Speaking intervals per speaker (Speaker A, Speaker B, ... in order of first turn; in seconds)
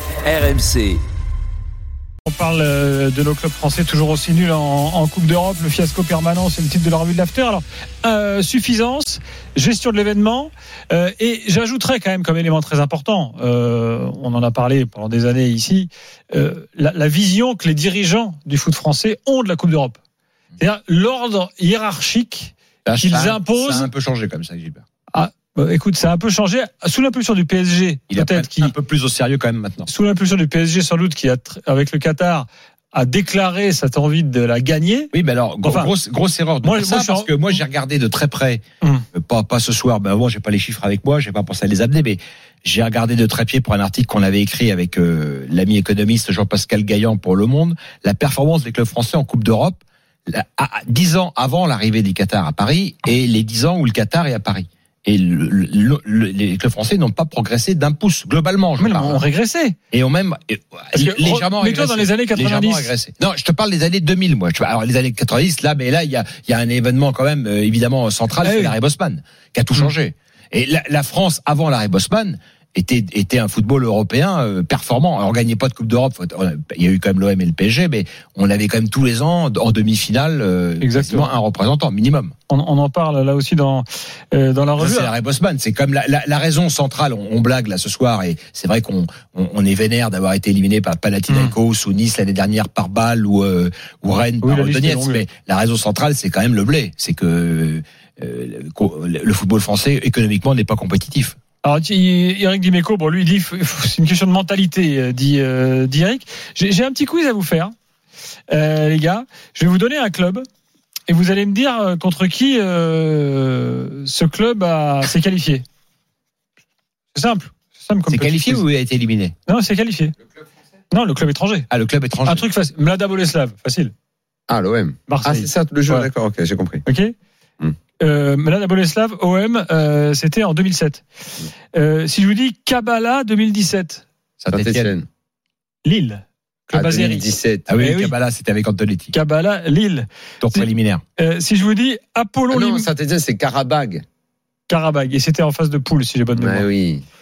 Speaker A: 2.2-20.0, 20.6-23.9, 25.1-28.7, 29.9-35.1, 35.6-35.9, 36.6-37.6, 58.8-59.8, 60.9-62.9, 68.4-68.8, 80.8-81.3, 82.5-85.1, 91.3-91.5, 94.4-95.2, 101.6-107.7, 108.5-110.4, 111.1-115.6, 117.1-118.6, 119.5-120.1, 120.9-121.7, 122.2-123.9, 125.1-126.1, 126.8-127.2, 128.0-131.0, 131.7-134.0, 135.8-138.2, 139.1-142.9, 144.7-146.7
Speaker B: 22.8-24.8, 28.1-29.9, 35.1-38.6, 39.1-59.2, 59.9-82.3, 84.8-101.4, 118.1-119.3, 121.7-122.4, 134.4-134.9, 137.7-139.1, 140.4-141.0
Speaker C: 124.5-126.8, 134.5-135.1, 136.7-137.7, 142.5-144.0, 146.3-147.0